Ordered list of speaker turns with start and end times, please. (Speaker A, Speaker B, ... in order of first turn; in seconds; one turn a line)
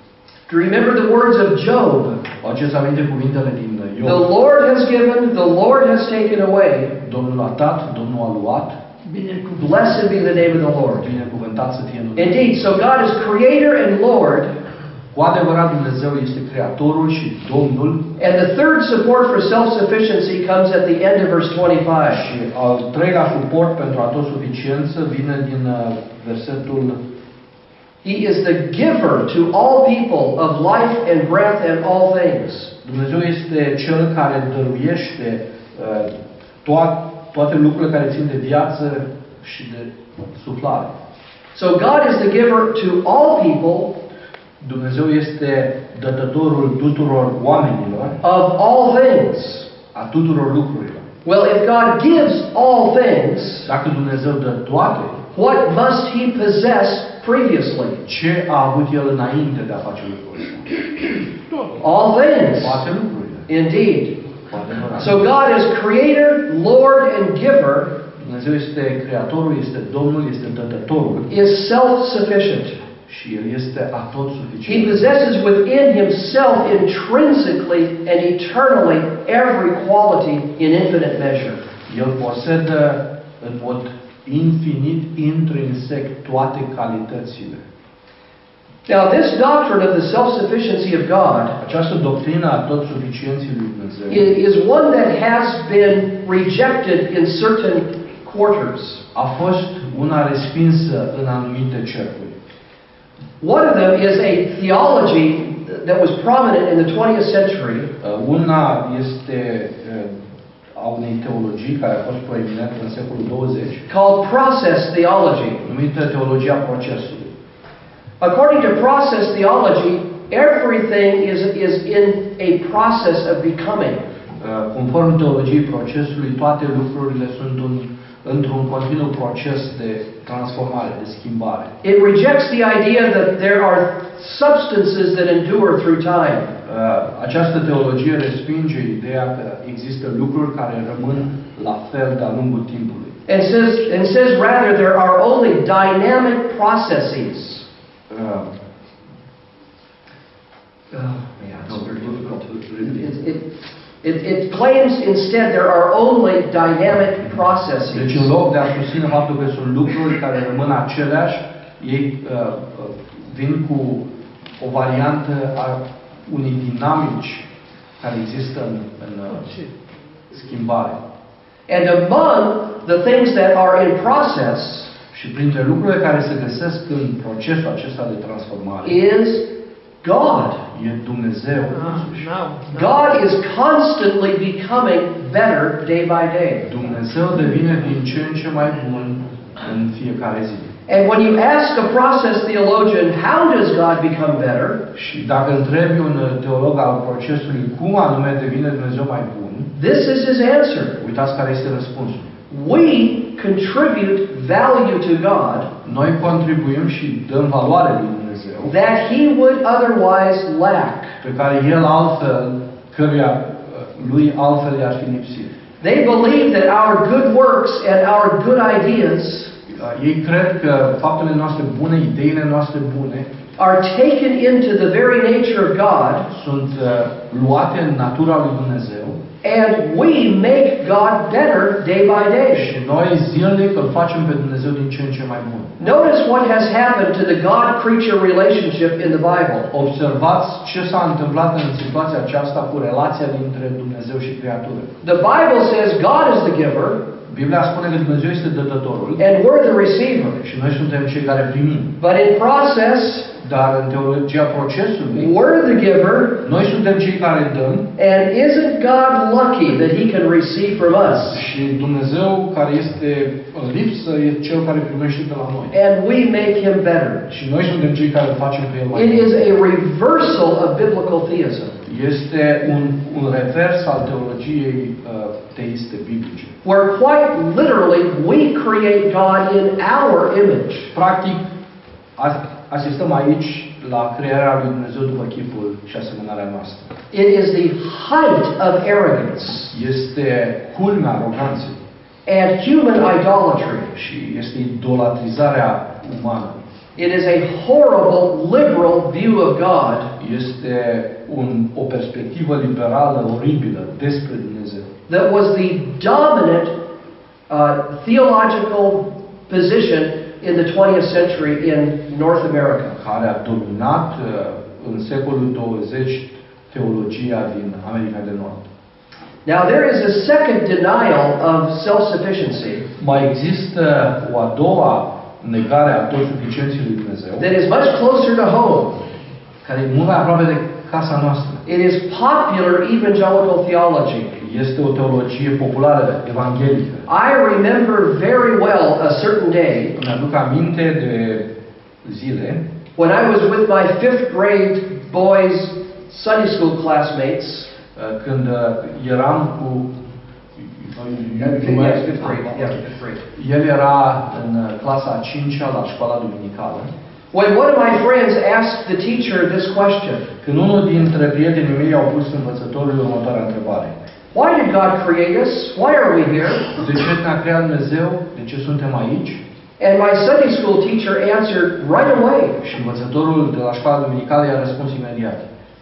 Speaker A: 0.5-2.2
Speaker B: 2.3-4.2
Speaker A: 4.0-7.0
Speaker B: 7.0-8.8
Speaker C: 9.1-9.9
Speaker A: 9.5-11.1
Speaker B: 11.0-12.8
Speaker A: 12.2-14.5
Speaker B: 15.1-18.1
Speaker A: 18.2-22.2
Speaker B: 22.1-27.0
Speaker A: 28.0-32.7
Speaker B: 32.8-36.1
Speaker B: 36.6-40.9
Speaker A: 41.5-44.0
Speaker B: 44.6-48.2
Speaker A: 48.2-49.7
Speaker B: 49.9-51.1
Speaker A: 51.2-53.7
Speaker B: 53.7-55.2
Speaker A: 55.3-58.0
Speaker B: 58.0-60.8
Speaker A: 61.8-62.8
Speaker B: 62.6-63.5
Speaker A: 63.5-64.2
Speaker B: 64.5-65.2
Speaker A: 65.0-67.9
Speaker B: 68.2-71.3
Speaker A: 71.3-72.8
Speaker B: 73.1-75.1
Speaker A: 74.7-81.6
Speaker B: 81.9-87.7
Speaker A: 88.9-91.6
Speaker B: 91.6-94.3
Speaker A: 94.1-99.0
Speaker B: 99.1-102.4
Speaker A: 103.4-107.9
Speaker B: 108.0-110.2
Speaker B: 110.8-113.8
Speaker A: 113.9-115.6
Speaker B: 115.6-117.3
Speaker A: 118.2-124.0
Speaker B: 124.4-131.7
Speaker A: 131.8-136.5
Speaker B: 136.6-143.2
Speaker A: 143.3-147.7
Speaker B: 148.1-148.5
Speaker A: 150.9-153.4
Speaker B: 151.7-153.1
Speaker A: 154.0-158.3
Speaker B: 157.9-164.1
Speaker B: 164.6-167.4
Speaker B: 168.0-169.6
Speaker B: 170.3-171.0
Speaker A: 171.7-174.9
Speaker B: 175.1-179.0
Speaker A: 178.8-179.5
Speaker A: 180.0-180.6
Speaker B: 180.7-182.3
Speaker C: 181.8-182.9
Speaker A: 182.7-186.7
Speaker B: 186.7-190.7
Speaker A: 190.9-194.8
Speaker B: 194.9-199.7
Speaker A: 199.7-201.0
Speaker B: 201.0-202.3
Speaker A: 202.5-205.7
Speaker B: 205.8-208.7
Speaker A: 208.7-211.2
Speaker B: 211.2-215.5
Speaker A: 215.8-219.5
Speaker B: 219.7-223.3
Speaker A: 223.6-226.3
Speaker B: 226.3-229.2
Speaker A: 229.4-232.7
Speaker B: 232.5-235.8
Speaker A: 235.8-239.7
Speaker B: 239.7-244.9
Speaker A: 245.0-247.0
Speaker B: 247.3-249.2
Speaker A: 249.2-250.4
Speaker B: 250.4-252.0
Speaker A: 252.0-253.3
Speaker B: 253.3-255.3
Speaker A: 255.2-256.4
Speaker B: 256.4-257.9
Speaker A: 258.0-261.4
Speaker B: 261.1-265.7
Speaker A: 265.7-267.3
Speaker B: 267.3-269.4
Speaker A: 268.9-271.8
Speaker B: 271.9-276.6
Speaker A: 276.6-280.9
Speaker B: 280.9-281.4
Speaker B: 282.2-286.9
Speaker A: 287.1-289.7
Speaker B: 289.7-291.8
Speaker A: 292.3-293.9
Speaker B: 293.9-296.6
Speaker A: 297.0-300.1
Speaker B: 300.2-304.9
Speaker A: 305.1-306.8
Speaker A: 307.5-313.0
Speaker B: 313.0-318.6
Speaker A: 319.4-322.9
Speaker B: 323.0-327.5
Speaker A: 327.4-329.0
Speaker B: 329.6-331.6
Speaker A: 331.6-334.4
Speaker B: 334.4-337.1
Speaker A: 337.1-339.9
Speaker B: 339.9-341.4
Speaker B: 342.0-342.6
Speaker A: 343.0-347.7
Speaker B: 347.9-349.9
Speaker B: 350.6-352.8
Speaker A: 351.4-353.2
Speaker B: 353.3-356.9
Speaker A: 357.3-360.3
Speaker B: 360.4-363.9
Speaker A: 364.3-366.8
Speaker B: 366.7-369.4
Speaker A: 369.8-372.6
Speaker B: 372.6-375.4